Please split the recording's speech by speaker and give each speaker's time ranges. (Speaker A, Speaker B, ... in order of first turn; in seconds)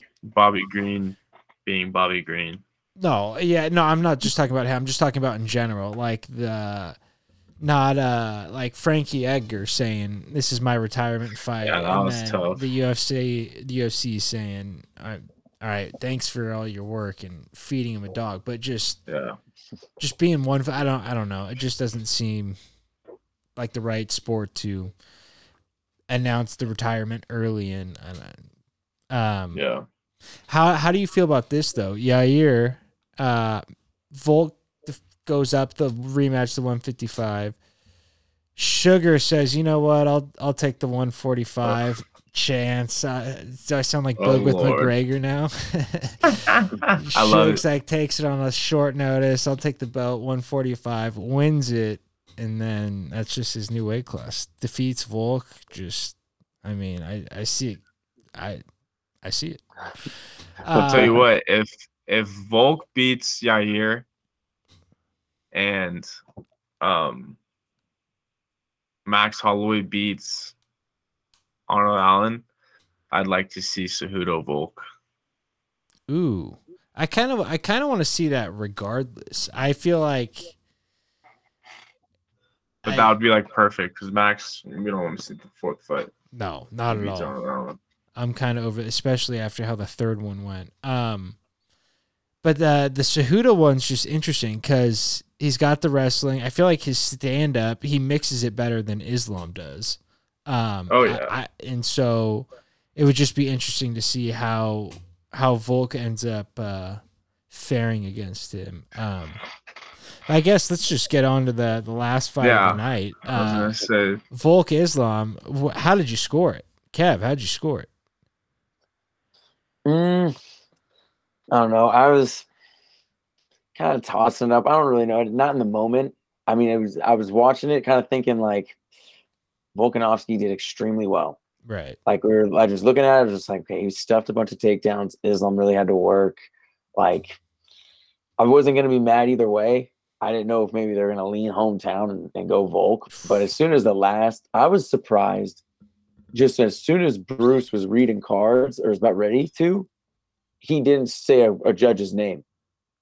Speaker A: 0.2-2.6, 11.6-12.6, 19.1-19.4, 29.5-29.9, 44.2-44.9, 46.3-47.6, 60.7-64.0, 65.5-66.0, 66.8-67.4, 69.0-70.5, 71.7-72.4, 73.1-74.8, 82.8-86.1, 86.9-87.8, 100.9-101.3, 112.4-114.2
Speaker B: 3.0-7.0, 7.6-19.0, 20.0-22.6, 23.6-24.9, 26.1-28.4, 29.1-29.6, 30.5-37.5, 38.5-46.4, 47.0-57.8, 58.3-58.6, 59.2-59.6, 60.6-61.2, 76.1-80.5, 82.8-83.1, 86.3-87.3, 88.2-91.4, 92.4-109.4, 110.3-117.9, 131.7-132.0
Speaker C: 60.8-61.2, 119.8-120.3, 121.5-122.5, 123.7-128.8, 129.7-131.4, 132.1-136.4, 136.9-137.4, 138.4-145.6, 146.3-149.9, 150.6-152.4